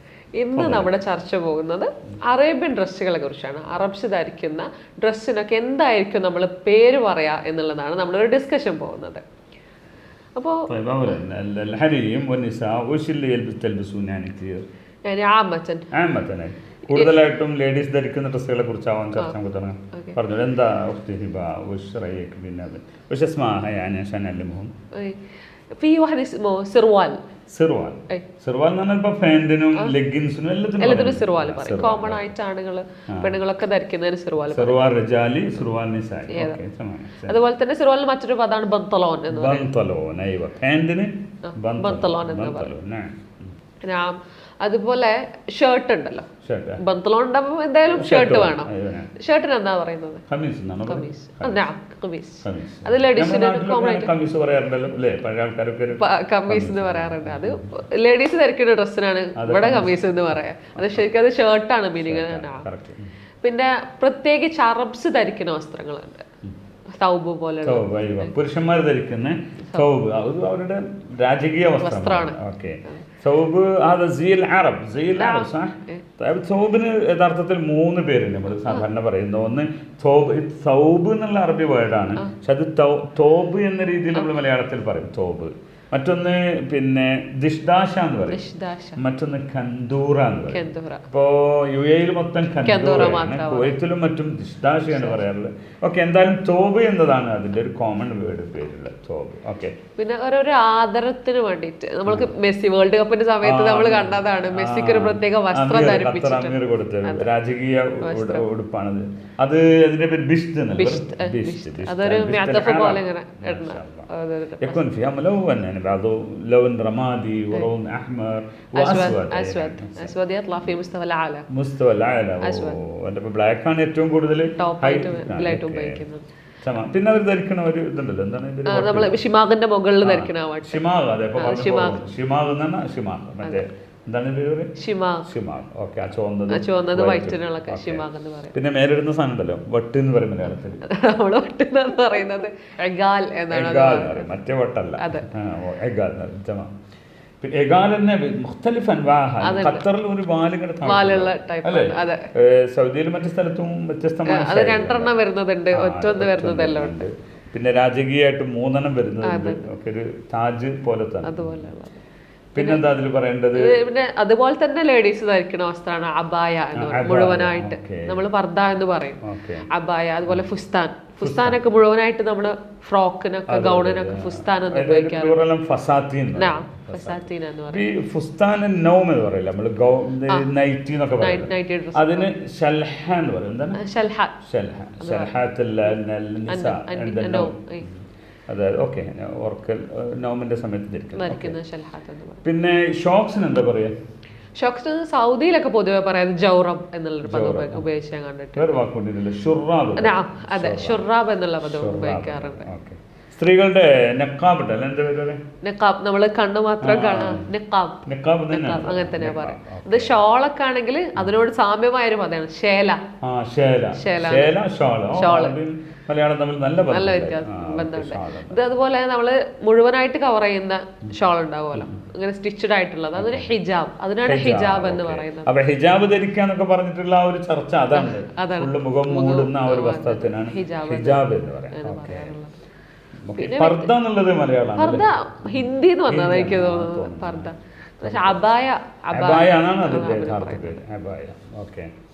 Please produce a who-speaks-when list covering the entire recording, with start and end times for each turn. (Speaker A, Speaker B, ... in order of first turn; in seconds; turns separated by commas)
Speaker A: 0.4-9.2, Speaker B: 0.6-0.9, Speaker A: 10.4-11.2, Speaker B: 10.7-14.7, Speaker A: 15.1-15.9, Speaker B: 15.9-24.7, Speaker A: 24.9-27.2, Speaker B: 27.5-32.3, Speaker A: 30.8-34.8, Speaker B: 33.1-33.4, Speaker B: 34.5-37.4, Speaker A: 36.3-36.6, Speaker A: 37.3-39.7, Speaker B: 39.3-43.5, Speaker A: 41.5-42.7, Speaker A: 43.8-50.2, Speaker B: 46.4-46.8, Speaker B: 47.9-49.1, Speaker B: 50.3-51.6, Speaker A: 50.9-54.1, Speaker B: 52.4-57.7, Speaker A: 56.0-62.7, Speaker B: 59.4-61.0, Speaker B: 62.0-63.1, Speaker A: 63.4-66.3, Speaker A: 66.9-68.3, Speaker B: 67.6-88.4, Speaker A: 71.8-73.0, Speaker A: 75.2-76.0, Speaker A: 88.3-89.0, Speaker B: 89.0-99.8, Speaker A: 90.5-91.1, Speaker A: 92.6-93.8, Speaker A: 94.9-95.2, Speaker A: 100.0-107.3, Speaker B: 102.1-102.3, Speaker B: 103.4-114.1, Speaker A: 108.0-108.5, Speaker A: 110.8-114.8, Speaker B: 114.6-120.2, Speaker A: 118.8-121.5, Speaker B: 121.5-126.0, Speaker A: 122.4-122.8, Speaker A: 124.6-126.3, Speaker B: 126.6-129.2, Speaker A: 128.7-130.8, Speaker B: 130.0-134.7, Speaker A: 131.4-132.0, Speaker A: 134.8-135.3, Speaker B: 135.3-140.9, Speaker A: 136.5-138.6, Speaker A: 140.8-144.3, Speaker B: 143.5-146.7, Speaker A: 145.0-145.3, Speaker B: 147.4-155.1, Speaker A: 149.4-149.9, Speaker A: 150.8-152.3, Speaker A: 154.3-157.1, Speaker B: 155.7-161.7, Speaker A: 159.2-159.7, Speaker A: 161.2-162.0, Speaker B: 162.5-163.8, Speaker A: 162.6-162.8, Speaker A: 163.6-175.4, Speaker B: 166.8-168.2, Speaker B: 169.2-169.7, Speaker B: 171.2-171.6, Speaker B: 173.5-183.8, Speaker A: 176.3-177.8, Speaker A: 181.2-182.3, Speaker A: 183.8-184.4, Speaker B: 184.4-191.6, Speaker A: 185.0-185.4, Speaker A: 186.5-187.9, Speaker A: 191.2-192.4, Speaker B: 192.4-193.9, Speaker A: 194.6-198.8, Speaker B: 197.2-197.9, Speaker B: 198.6-201.1, Speaker A: 200.0-202.7, Speaker B: 201.6-205.4, Speaker A: 205.6-213.0, Speaker B: 206.8-207.5, Speaker B: 208.1-210.2, Speaker B: 213.2-218.6, Speaker A: 213.9-214.6, Speaker A: 215.1-215.6, Speaker A: 216.9-225.5, Speaker B: 221.8-222.0, Speaker B: 223.2-223.5, Speaker B: 224.2-232.3, Speaker A: 227.9-232.6, Speaker B: 233.2-237.5, Speaker A: 233.3-233.9, Speaker A: 234.8-240.8, Speaker B: 238.0-238.4, Speaker B: 239.1-241.9